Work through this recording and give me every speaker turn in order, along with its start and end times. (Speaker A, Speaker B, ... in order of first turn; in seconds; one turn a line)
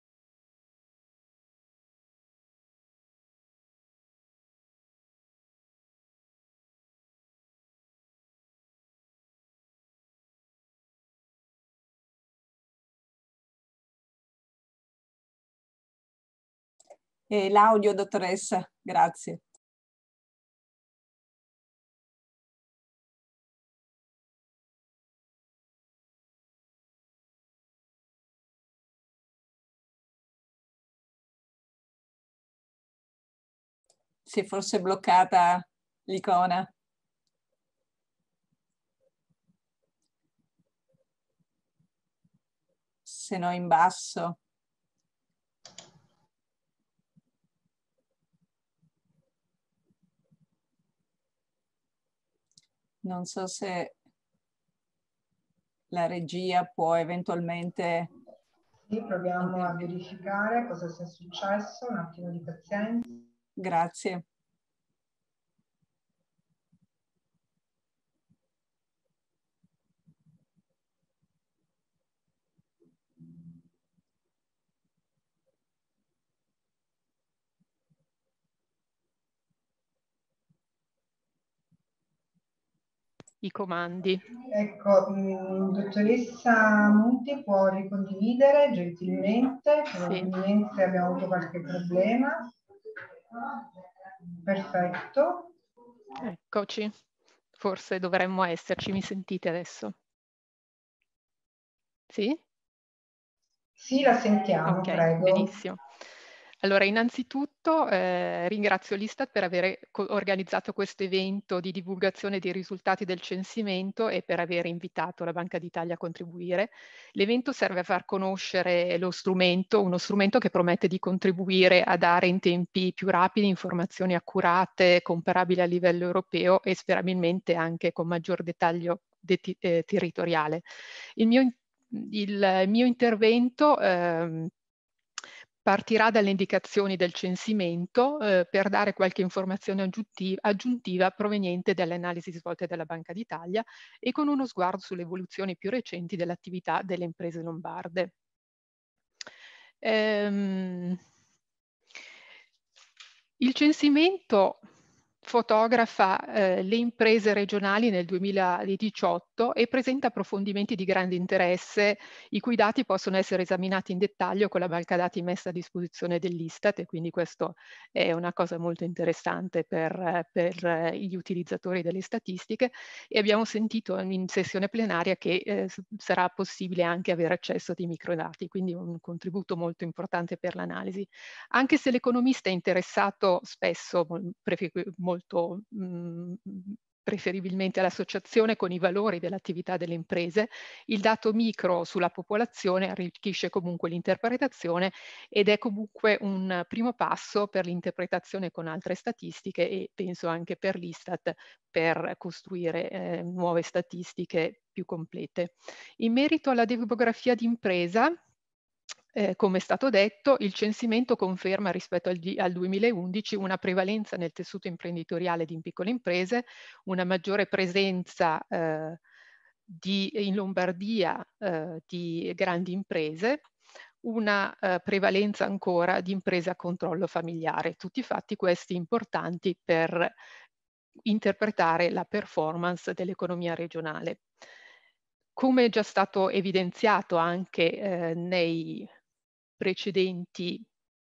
Speaker A: 17.3-19.4
Speaker A: 34.3-36.7
Speaker A: 43.1-44.4
Speaker A: 53.0-54.0
Speaker A: 55.9-58.1
Speaker B: 58.9-63.2
Speaker A: 63.6-64.2
Speaker C: 83.4-84.2
Speaker B: 84.5-92.5
Speaker C: 90.0-90.3
Speaker B: 94.4-95.5
Speaker C: 96.2-96.9
Speaker C: 97.6-100.0
Speaker C: 102.1-102.4
Speaker B: 103.8-105.5
Speaker C: 104.6-105.8
Speaker C: 106.6-130.7
Speaker C: 131.2-134.5
Speaker C: 135.7-148.1
Speaker C: 149.8-151.0
Speaker C: 153.4-154.6
Speaker C: 155.2-208.2
Speaker C: 209.1-219.0
Speaker C: 219.7-223.4
Speaker C: 224.0-230.1
Speaker C: 231.1-234.2
Speaker C: 235.4-238.9
Speaker C: 239.6-240.6